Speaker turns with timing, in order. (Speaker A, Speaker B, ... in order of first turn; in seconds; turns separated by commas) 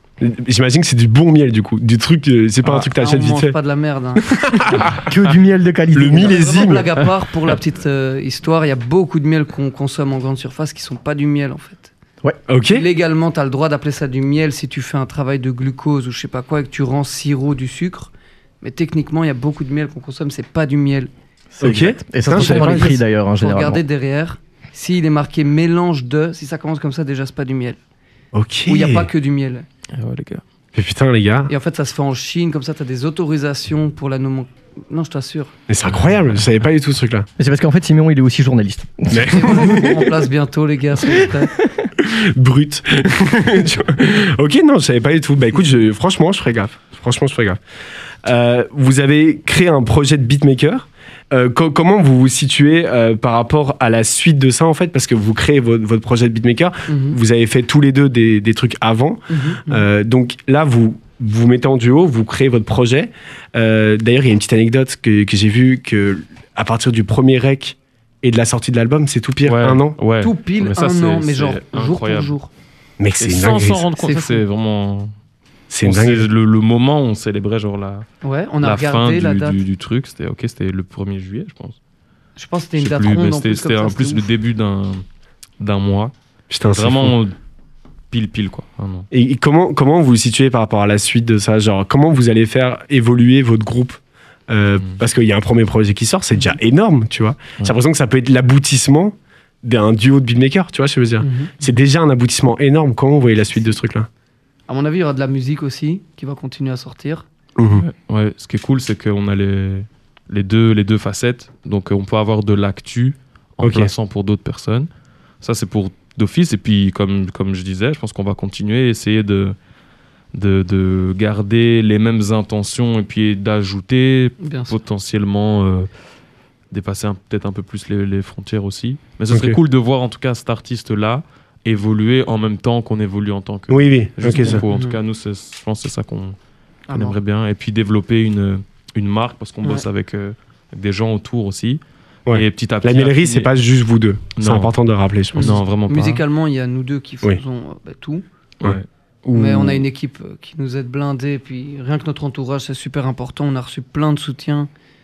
Speaker A: 0.2-3.6, Speaker B: 2.6-4.2, Speaker A: 4.2-5.1, Speaker C: 5.0-6.7, Speaker A: 5.9-7.0, Speaker B: 6.2-11.9, Speaker A: 12.5-12.9, Speaker B: 12.7-21.1, Speaker C: 21.5-23.8, Speaker A: 21.6-23.0, Speaker B: 22.3-27.8, Speaker A: 28.3-29.1, Speaker B: 28.7-29.7, Speaker D: 29.9-30.4, Speaker A: 30.8-31.5, Speaker B: 31.5-35.5, Speaker A: 35.7-37.3, Speaker C: 37.4-39.9, Speaker A: 39.1-40.1, Speaker B: 39.3-41.5, Speaker A: 42.0-47.6, Speaker A: 48.2-70.0, Speaker B: 56.9-57.2, Speaker B: 59.3-59.9, Speaker D: 69.4-72.3, Speaker B: 70.2-72.5, Speaker A: 73.0-73.8, Speaker D: 73.2-75.1, Speaker B: 74.0-74.4, Speaker A: 75.7-76.3, Speaker D: 75.8-78.1, Speaker B: 78.2-79.6, Speaker D: 78.6-81.8, Speaker B: 82.4-84.3, Speaker D: 82.8-85.0, Speaker D: 85.6-86.1, Speaker A: 86.5-87.1, Speaker D: 86.7-87.3, Speaker D: 88.1-89.1, Speaker A: 89.1-104.1, Speaker B: 101.2-101.5, Speaker B: 104.7-107.3, Speaker A: 107.6-107.8, Speaker D: 107.8-114.9, Speaker A: 113.6-113.9, Speaker D: 115.4-119.6, Speaker D: 120.3-125.9, Speaker B: 124.4-124.8, Speaker D: 126.7-136.4, Speaker A: 129.3-129.6, Speaker A: 133.7-134.6, Speaker B: 134.3-135.0, Speaker B: 136.9-137.2, Speaker D: 136.9-143.5, Speaker A: 142.3-145.6, Speaker D: 144.4-144.7, Speaker B: 145.3-148.2, Speaker D: 145.4-146.2, Speaker D: 148.6-148.9, Speaker A: 148.6-149.8, Speaker B: 149.3-154.7